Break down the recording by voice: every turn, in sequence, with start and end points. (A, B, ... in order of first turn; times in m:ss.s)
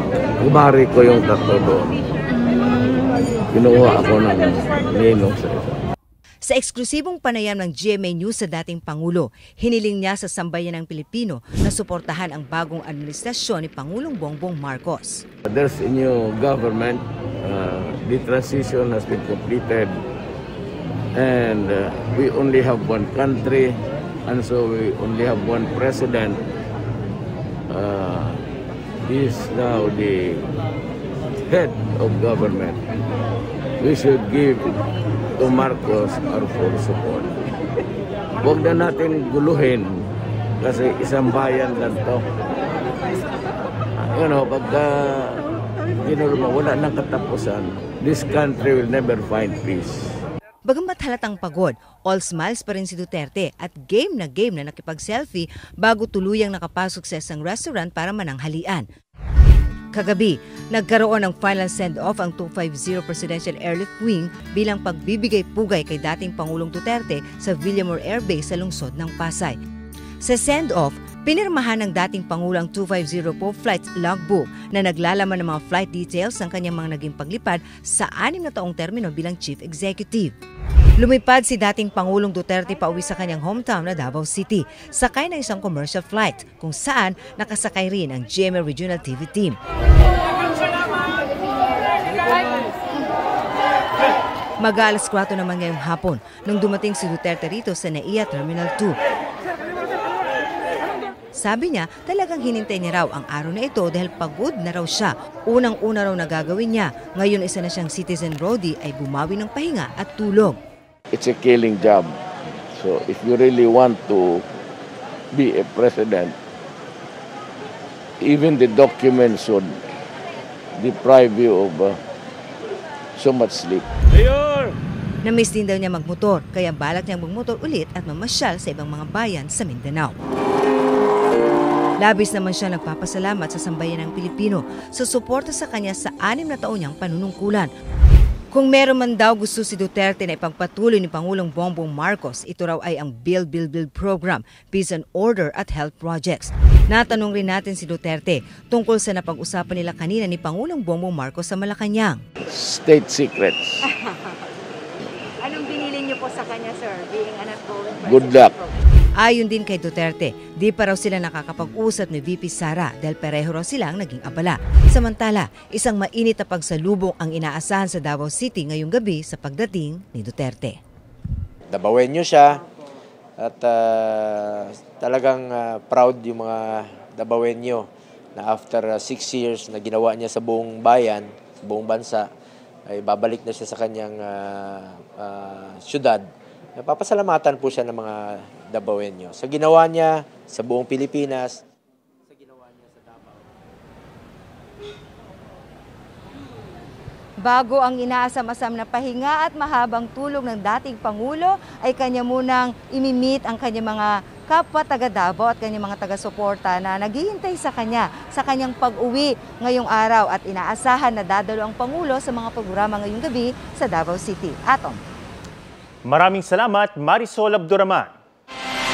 0:00.4-0:02.0 A
0:02.3-0:03.0 B
0:03.5-0:05.8 A
0:06.4-0:15.2 C
0:15.5-0:20.0 A
0:21.2-0:26.4 A
0:27.7-0:28.4 A
0:29.0-0:30.5 A
0:31.5-0:32.8 A
0:33.8-0:34.8 A
0:35.4-0:37.4 A
0:38.4-0:40.0 A
0:40.6-0:42.2 A
0:44.0-0:45.4 A
0:46.0-0:50.1 A
0:50.6-0:58.9 C
0:59.9-1:09.6 C
1:10.2-1:20.3 C
1:21.0-1:29.6 C
1:34.6-1:39.0 C
1:41.4-1:50.6 C
1:51.1-1:54.4 A
1:55.3-1:56.4 A
1:58.2-1:59.8 A
2:00.8-2:02.0 A
2:03.2-2:03.9 A
2:05.2-2:10.2 C
2:12.0-2:17.7 C
2:18.5-2:32.2 C
2:32.5-2:33.8 A
2:33.9-2:34.2 B
2:35.4-2:38.7 B
2:38.0-2:38.5 A
2:39.2-2:50.8 C
2:51.7-2:52.6 D
2:53.4-3:02.3 D
3:02.9-3:11.6 D
3:17.4-3:35.0 C
3:36.1-3:38.1 E